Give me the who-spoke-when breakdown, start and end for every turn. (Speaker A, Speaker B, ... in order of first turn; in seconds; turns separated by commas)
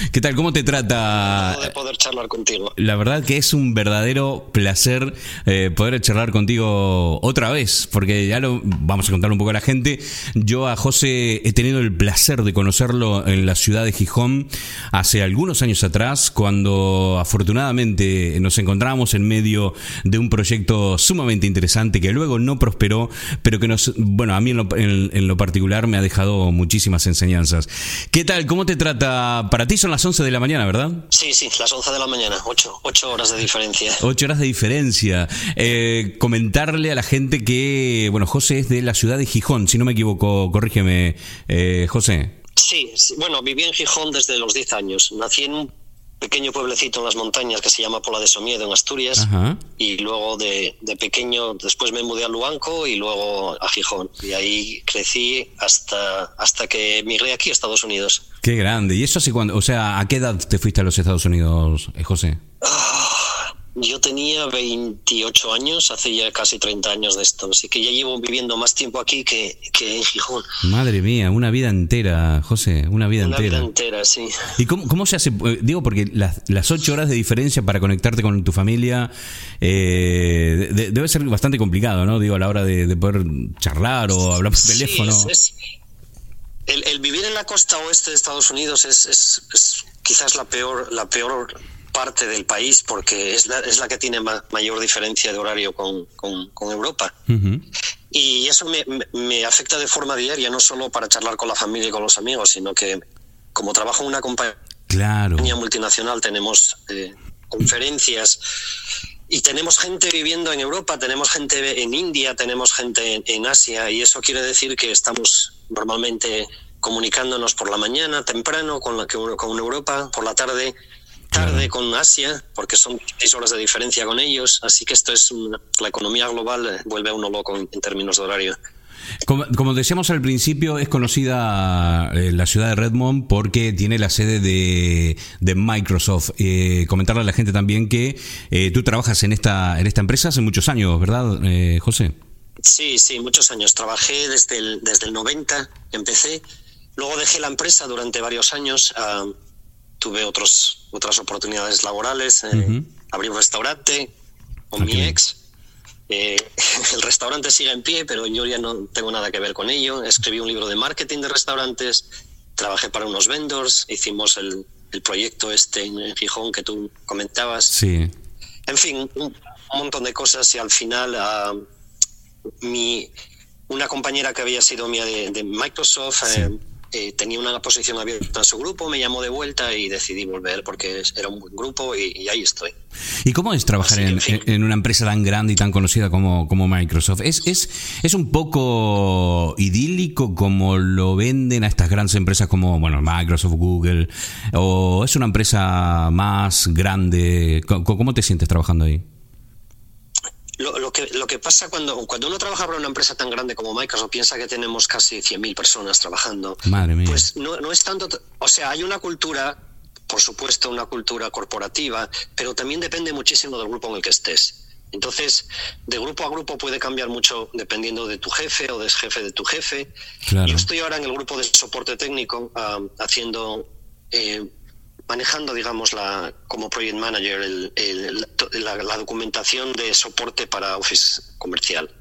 Speaker A: 0.1-1.7, Speaker B: 1.3-2.7, Speaker A: 2.8-31.1, Speaker B: 31.1-34.0, Speaker A: 34.0-42.4, Speaker B: 42.6-49.3, Speaker A: 49.2-49.6, Speaker B: 49.8-58.2, Speaker A: 58.4-62.4, Speaker B: 62.6-70.5, Speaker A: 70.6-73.7, Speaker B: 73.2-74.5, Speaker A: 74.6-85.3, Speaker B: 84.6-85.5, Speaker B: 86.7-97.2, Speaker A: 97.3-97.6, Speaker B: 98.1-103.0, Speaker B: 103.5-104.6, Speaker A: 104.9-105.6, Speaker B: 105.4-108.4, Speaker B: 109.3-120.8, Speaker B: 121.3-128.6, Speaker A: 121.3-121.7, Speaker A: 129.3-142.2, Speaker B: 142.6-146.4, Speaker B: 147.0-149.3, Speaker B: 150.0-154.1, Speaker A: 152.5-152.9, Speaker B: 154.7-155.4, Speaker A: 154.8-155.2, Speaker B: 156.1-162.1, Speaker B: 162.6-167.7, Speaker A: 167.7-168.1, Speaker B: 168.7-171.6, Speaker B: 172.6-173.1, Speaker B: 173.7-182.8, Speaker A: 176.3-176.5, Speaker A: 183.2-199.0, Speaker B: 183.8-184.4, Speaker B: 200.6-209.6, Speaker A: 206.7-207.3, Speaker B: 210.1-219.9, Speaker A: 220.3-220.7, Speaker B: 220.4-224.5, Speaker B: 225.1-231.9